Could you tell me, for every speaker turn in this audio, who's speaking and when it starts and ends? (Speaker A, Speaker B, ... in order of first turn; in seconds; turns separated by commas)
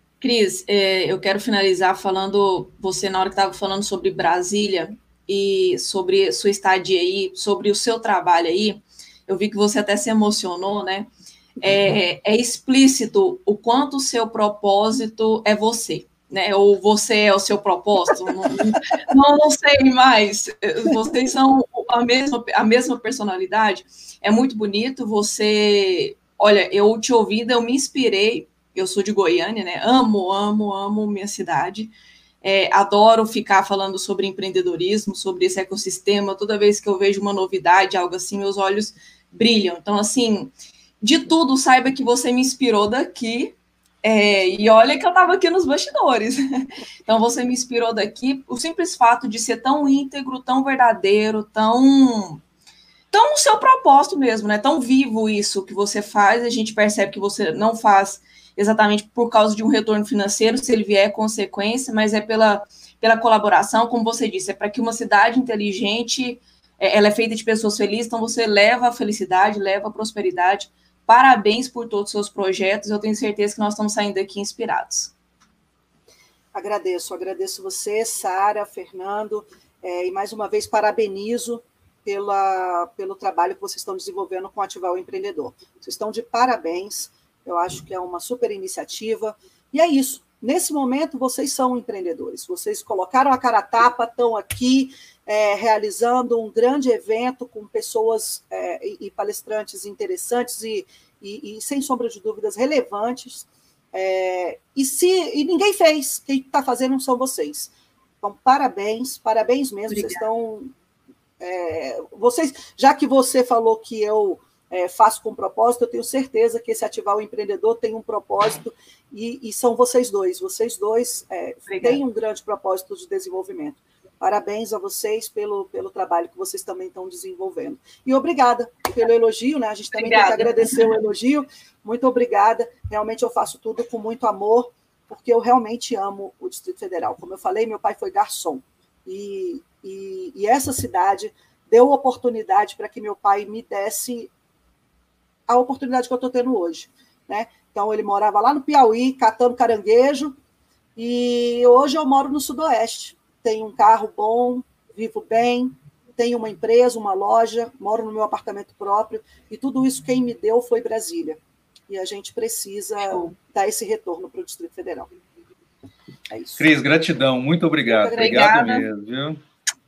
Speaker A: 0.2-52.4, Speaker A: 53.1-75.1, Speaker B: 76.5-110.7, Speaker A: 109.9-110.2, Speaker B: 111.4-144.3, Speaker A: 121.7-122.0, Speaker A: 129.9-131.0, Speaker B: 145.5-150.3, Speaker B: 150.9-165.1, Speaker A: 163.1-163.3, Speaker B: 166.3-166.7, Speaker C: 166.6-169.4, Speaker B: 167.9-168.5, Speaker A: 168.0-168.9